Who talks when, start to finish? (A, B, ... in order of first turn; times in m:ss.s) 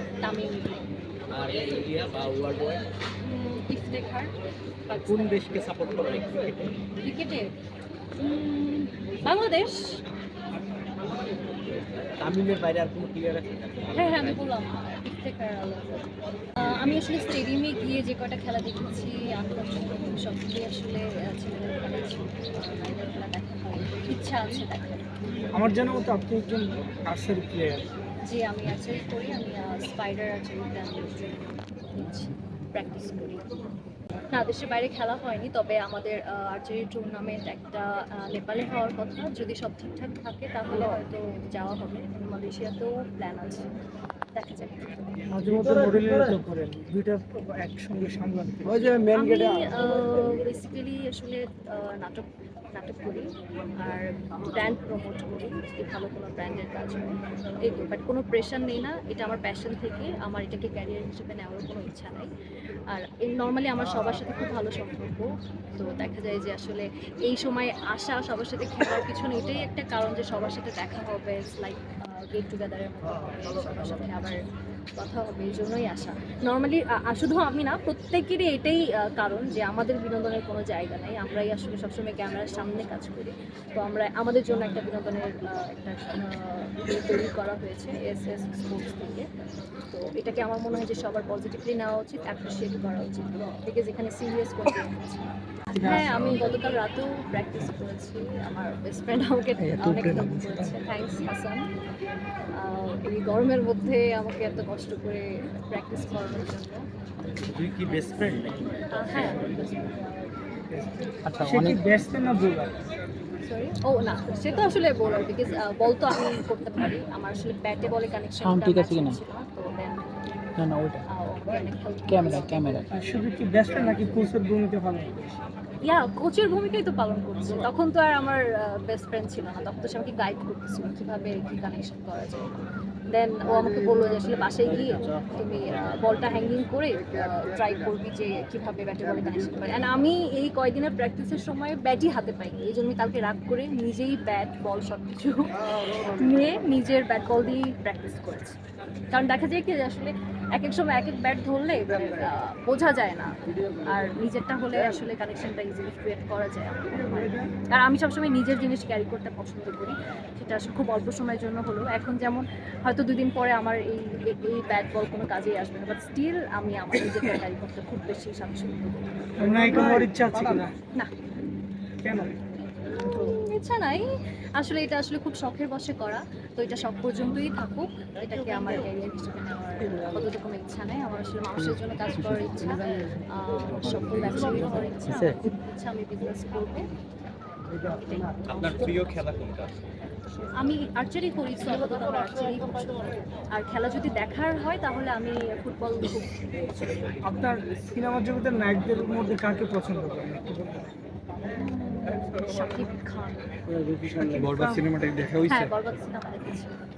0:00.2-0:00.9 A
0:01.3-0:02.8 B
0:03.2-0:04.3 A
0:04.9-0:05.5 A
0:04.9-0:06.8 B
0:07.0-0:07.5 A
0:08.2-0:10.0 A
0:12.0-0:14.5 B
0:13.9-0:25.1 A
0:25.5-0:27.8 C
0:28.2-0:33.5 A
0:34.3-0:43.7 A
0:44.3-0:45.1 A
0:45.3-0:48.9 C
0:49.1-1:02.3 A
1:02.9-1:14.4 A
1:15.0-1:29.3 A
1:29.9-1:41.7 A
1:35.7-1:36.6 C
1:39.8-1:40.8 C
1:42.6-1:46.8 A
1:47.4-1:49.9 B
1:48.9-1:49.6 A
1:50.7-1:52.7 C
1:51.2-1:51.8 D
1:53.4-2:00.0 A
1:58.4-1:59.2 D
2:00.6-2:01.0 D
2:01.1-2:02.7 A
2:02.1-2:02.9 D
2:02.9-2:05.3 C
2:05.8-2:28.6 A
2:29.1-2:33.3 A
2:33.8-2:49.2 A
2:37.1-2:37.5 C
2:49.4-2:50.7 C
2:52.0-2:52.4 C
2:52.8-3:06.9 A
3:04.0-3:05.4 D
3:08.0-3:09.3 A
3:08.5-3:09.7 B
3:10.6-3:17.1 A
3:17.2-3:20.9 C
3:21.6-3:23.5 A
3:23.9-3:25.1 C
3:24.3-3:25.7 B
3:25.5-3:26.7 A